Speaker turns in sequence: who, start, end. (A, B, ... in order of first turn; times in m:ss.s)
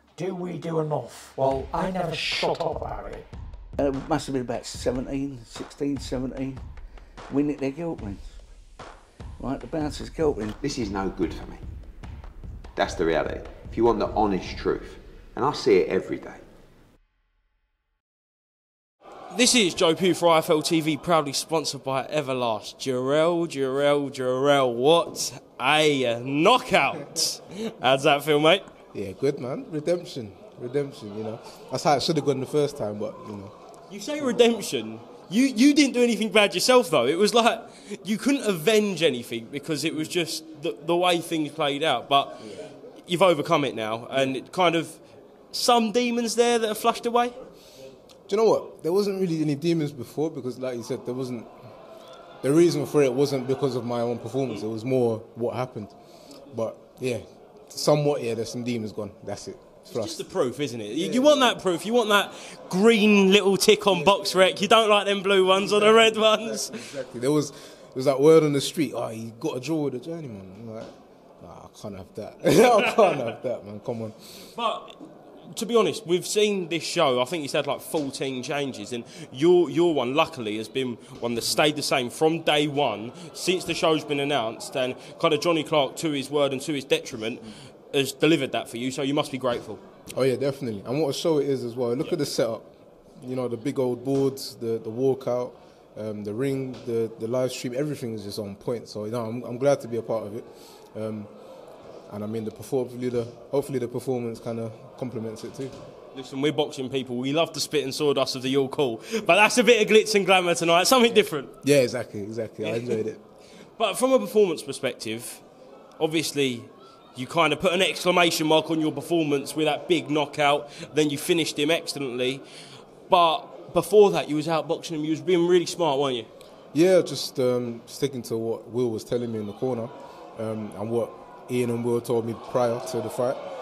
0:00.2-0:03.2 A
0:03.8-0:06.5 B
0:07.3-0:08.2 B
0:09.4-0:10.5 B
0:10.6-0:11.6 C
0:12.8-0:16.4 C
0:19.3-0:28.6 D
0:28.9-0:33.5 E
0:33.9-0:47.3 D
0:48.3-0:51.5 E
0:52.4-0:55.9 E
0:56.5-1:00.2 E
0:59.9-1:06.9 D
1:00.9-1:01.5 E
1:03.9-1:04.5 E
1:05.6-1:14.1 E
1:12.6-1:13.2 D
1:14.4-1:15.0 D
1:15.5-1:29.8 D
1:30.2-1:41.3 E
1:42.1-1:45.7 E
1:46.1-1:51.5 D
1:51.6-1:53.2 E
1:52.6-1:53.0 D
1:53.8-1:55.4 D
1:56.0-2:02.4 D
2:03.1-2:06.3 D
2:06.7-2:13.4 E